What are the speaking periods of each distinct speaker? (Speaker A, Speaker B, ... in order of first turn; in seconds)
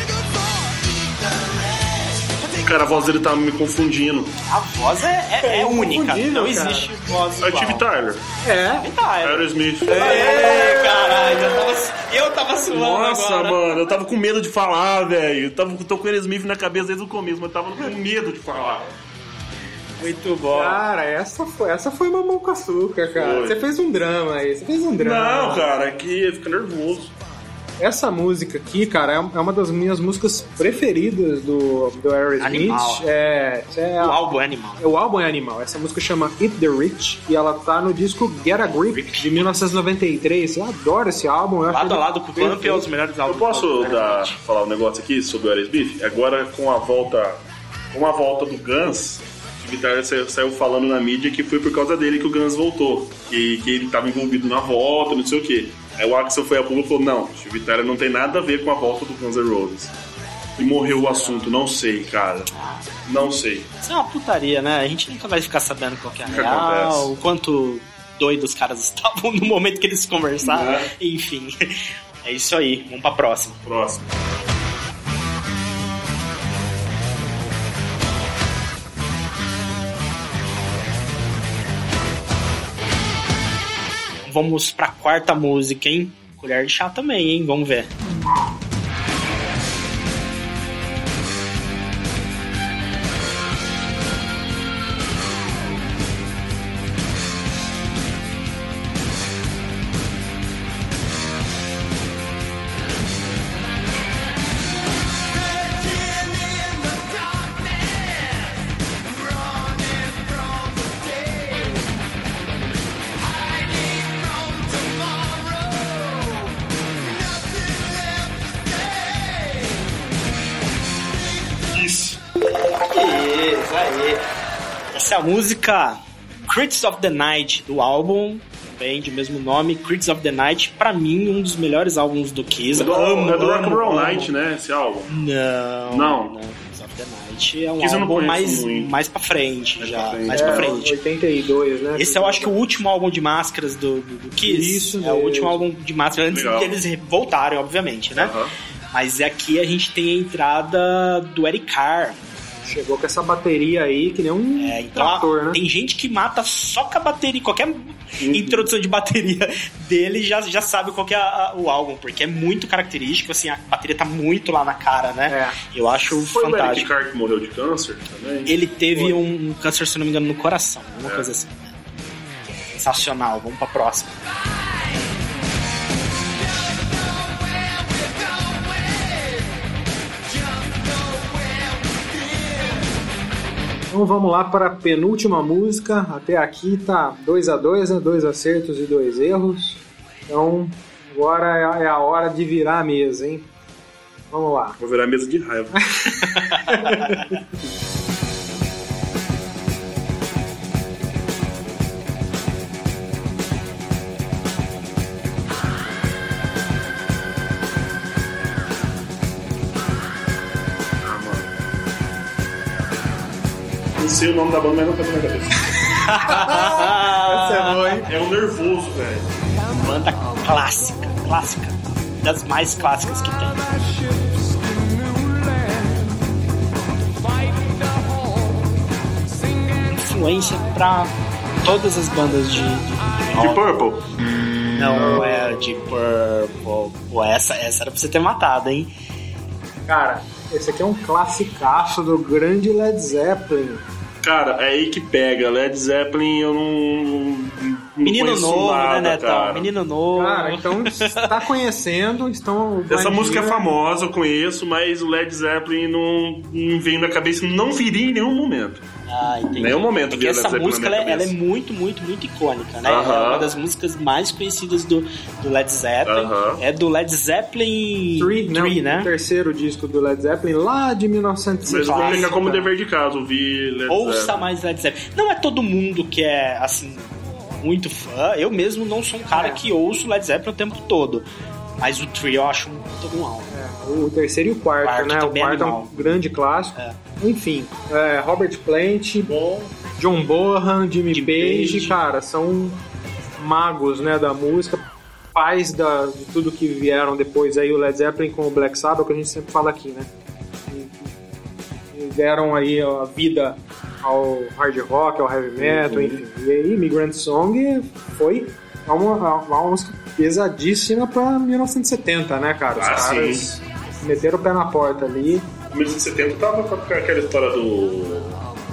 Speaker A: 2.6-4.3, 7.4-8.2, 9.2-10.2, 12.5-18.9, 23.1-23.6, 24.9-27.1, 43.3-47.4, 47.9-59.9, 60.6-62.5, 63.1-63.7, 66.3-67.1, 70.4-70.9, 73.7-74.1, 121.7-122.2, 132.7-135.1, 135.9-136.3, 137.8-138.9, 139.8-140.8, 146.3-146.8, 148.1-148.5, 158.2-158.7, 166.1-169.2, 171.0-171.3, 194.8-195.8, 211.0-211.5, 214.0-215.9, 218.1-219.3, 233.4-234.0, 244.2-249.7, 252.9-258.9, 259.6-261.4, 262.8-263.5, 266.1-266.6, 271.6-274.5, 289.3-289.7, 305.6-306.2, 312.8-313.5, 315.7-318.4
Speaker B: 4.5-7.9, 8.8-13.7, 20.0-20.8, 32.4-33.1, 34.0-34.9, 38.9-39.8, 41.7-44.4, 60.9-61.4, 62.5-62.9, 63.8-71.5, 72.2-73.6, 84.2-87.9, 122.7-124.2, 124.9-134.3, 135.1-140.9, 141.9-148.4, 148.9-152.2, 154.6-166.9, 168.5-171.8, 172.7-174.2, 196.5-197.3, 215.9-218.1, 219.7-223.8, 229.8-233.6, 234.8-238.9, 248.1-251.3, 259.1-269.1, 271.9-272.3, 273.9-281.3, 281.8-283.5, 284.8-286.2, 291.1-292.0
Speaker C: 5.4-7.0, 8.4-8.9, 9.9-11.7, 20.5-25.7, 27.8-34.2, 34.8-42.9, 132.9-134.3, 140.3-142.7, 144.4-145.6, 152.7-155.6, 165.3-165.6, 183.9-193.5, 194.3-194.8, 195.7-197.3, 216.2-218.1, 235.0-235.3, 239.9-243.9, 250.2-253.6, 268.2-272.7, 279.3-279.6, 283.5-292.8, 293.4-294.8, 295.3-300.1, 300.7-301.1, 301.9-315.5